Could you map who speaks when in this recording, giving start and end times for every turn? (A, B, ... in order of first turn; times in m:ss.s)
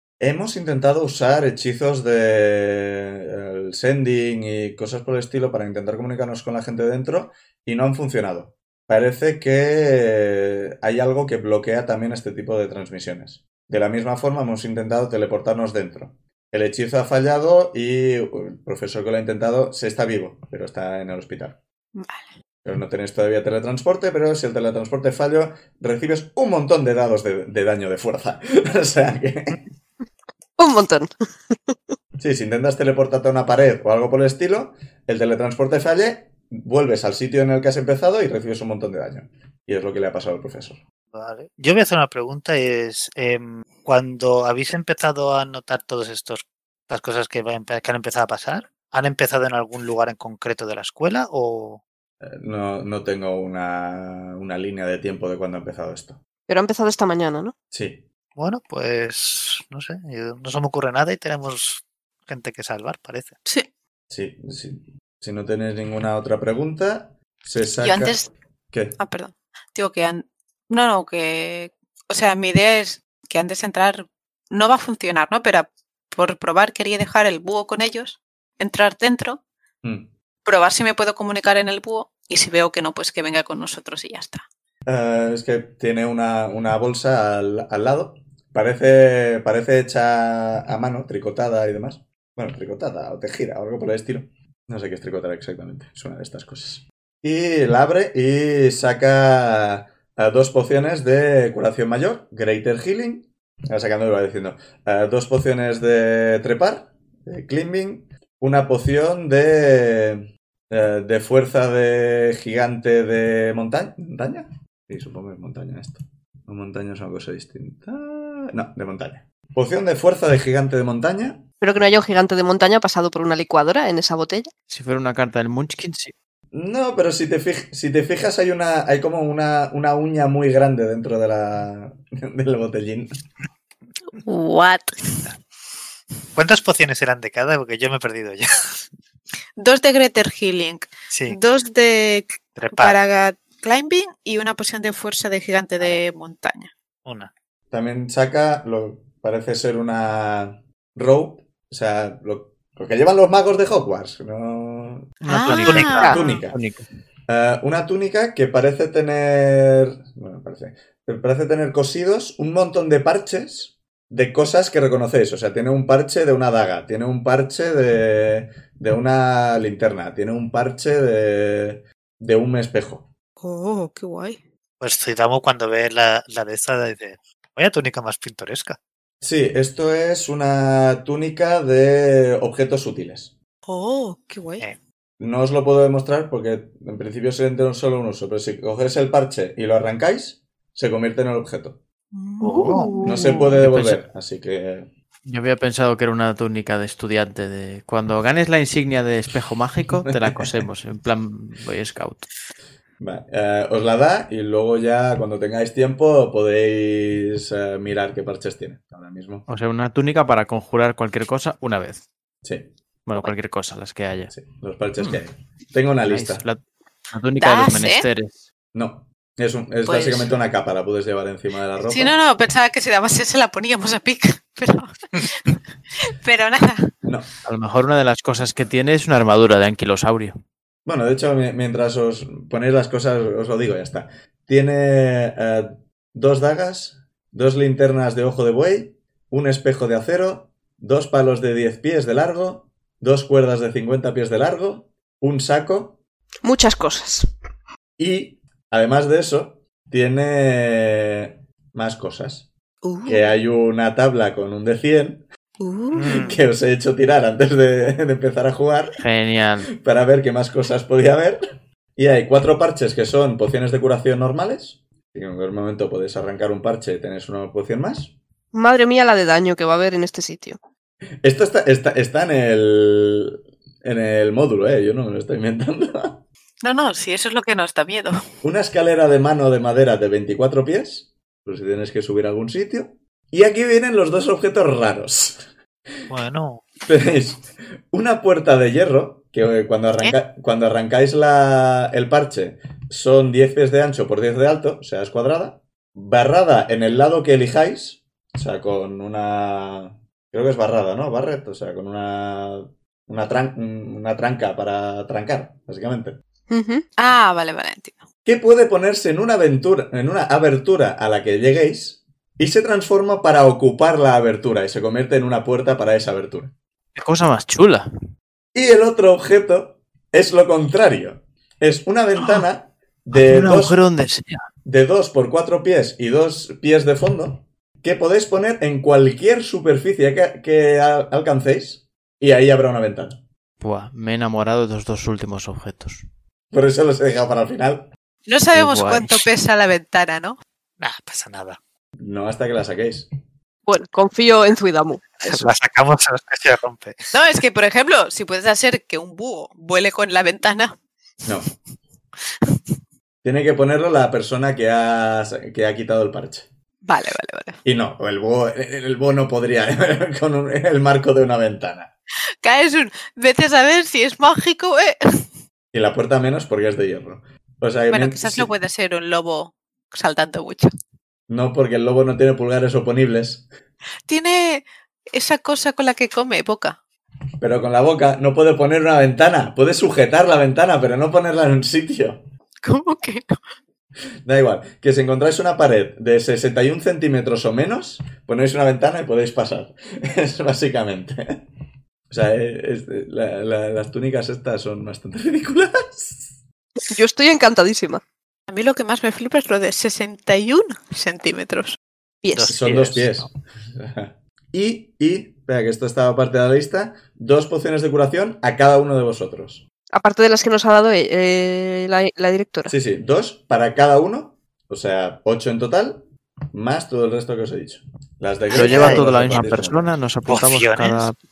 0:00.2-0:21.6 A
0:21.9-0:22.3 B
0:22.6-0:29.6 A
0:30.6-0:31.9 C
0:32.2-0:40.8 A
0:41.1-0:51.8 D
0:52.2-0:56.2 A
0:56.5-0:57.5 C
0:57.7-0:58.0 A
0:58.4-1:03.4 D
1:04.1-1:09.0 A
1:07.8-1:08.3 B
1:09.0-1:19.4 B
1:19.8-1:20.1 A
1:20.4-1:24.4 B
1:24.9-2:01.4 A
2:01.6-2:04.5 C
2:04.7-2:06.1 E
2:06.5-2:13.1 A
2:14.1-2:15.2 B
2:16.4-2:18.8 D
2:19.6-2:26.7 B
2:21.1-2:21.4 D
2:22.5-2:23.0 D
2:27.0-2:27.3 D
2:27.7-2:35.1 A
2:35.2-2:36.8 E
2:35.2-2:36.4 B
2:35.7-2:36.0 D
2:36.0-2:36.6 A
2:37.3-2:53.1 A
2:53.4-2:54.4 B
2:54.8-2:58.8 D
2:59.2-3:03.3 A
3:03.6-3:04.7 B
3:05.2-3:11.8 A
3:12.1-3:13.4 B
3:12.4-3:12.9 D
3:12.5-3:13.4 C
3:13.0-3:14.9 A
3:13.5-3:14.0 E
3:15.2-3:22.3 E
3:20.1-3:20.4 A
3:23.0-3:29.4 A
3:29.5-3:32.0 E
3:32.4-3:32.7 A
3:33.0-3:34.3 E
3:34.3-3:36.4 A
3:36.0-3:38.4 E
3:37.4-3:38.1 B
3:38.7-3:42.2 A
3:39.8-3:40.3 B
3:41.8-3:46.9 B
3:47.4-3:50.4 E
3:50.8-4:06.0 A
4:06.4-4:07.2 C
4:08.0-4:12.5 A
4:12.8-4:13.3 B
4:13.0-4:15.2 A
4:15.6-4:16.3 B
4:15.9-4:16.4 D
4:16.0-4:19.0 A
4:19.0-4:19.7 E
4:19.8-4:21.4 A
4:22.0-4:28.1 A
4:28.5-4:30.6 C
4:31.2-4:36.2 A
4:36.6-4:38.2 B
4:38.4-4:45.4 A
4:46.1-4:46.6 D
4:46.9-5:06.2 A
5:06.5-5:06.8 C
5:07.0-5:08.0 B
5:08.2-5:16.5 A
5:17.0-5:17.9 E
5:18.5-5:23.8 A
5:23.1-5:24.4 E
5:24.6-5:33.2 A
5:33.6-5:36.0 E
5:36.5-5:37.9 A
5:38.2-5:40.4 B
5:38.5-5:39.3 E
5:40.8-5:41.6 D
5:42.0-5:43.1 A
5:43.6-5:45.5 C
5:45.2-5:47.0 D
5:47.1-5:50.8 B
5:53.2-5:56.5 A
5:56.8-5:57.6 B
5:57.6-6:01.9 A
6:02.4-6:05.2 B
6:05.7-6:08.5 A
6:07.9-6:10.7 B
6:11.3-6:13.4 A
6:14.1-6:16.8 B
6:17.4-6:22.2 A
6:22.6-6:23.4 B
6:24.2-6:31.4 A
6:32.1-6:36.3 A
6:36.8-6:38.0 C
6:38.5-6:41.8 B
6:42.2-6:42.6 C
6:42.3-6:43.3 D
6:42.5-6:49.6 A
6:49.9-6:52.7 C
6:52.7-6:59.9 A
6:58.5-6:59.7 D
6:58.5-7:01.2 E
7:00.2-7:01.1 D